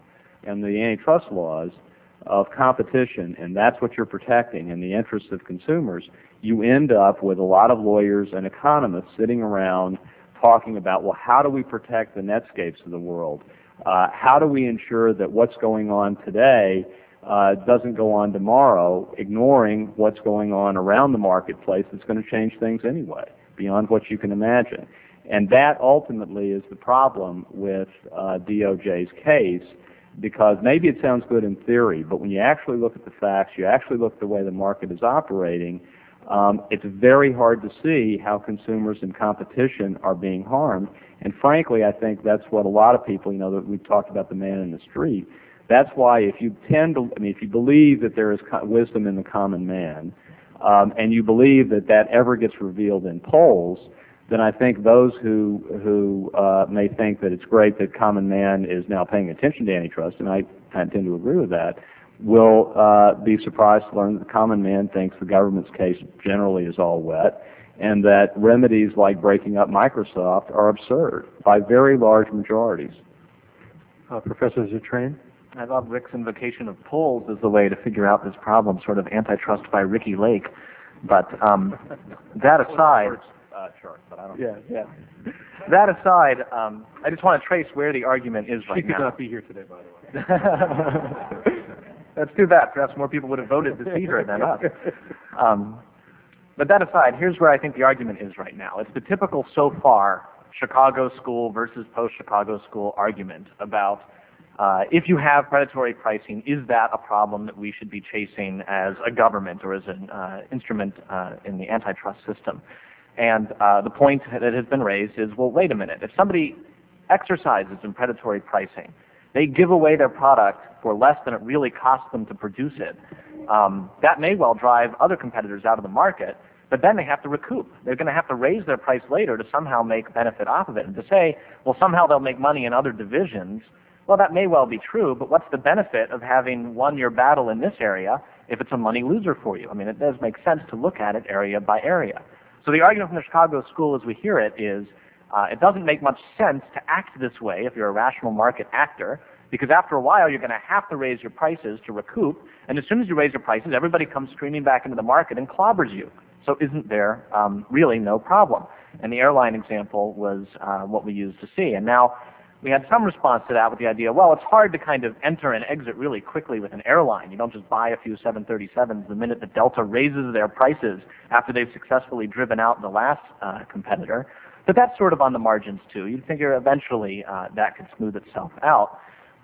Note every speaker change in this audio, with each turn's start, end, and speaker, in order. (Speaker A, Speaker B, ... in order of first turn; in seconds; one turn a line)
Speaker A: 0.4-73.0
Speaker B: 74.1-75.2
Speaker C: 75.5-80.5
Speaker C: 81.0-81.8
Speaker C: 82.3-83.3
Speaker A: 83.5-84.4
Speaker C: 84.4-84.9
Speaker C: 85.7-89.1
Speaker B: 88.7-90.0
Speaker C: 90.1-91.6
Speaker C: 92.2-94.8
Speaker C: 95.3-95.8
Speaker C: 96.6-104.0
Speaker C: 104.6-112.6
Speaker C: 113.2-179.0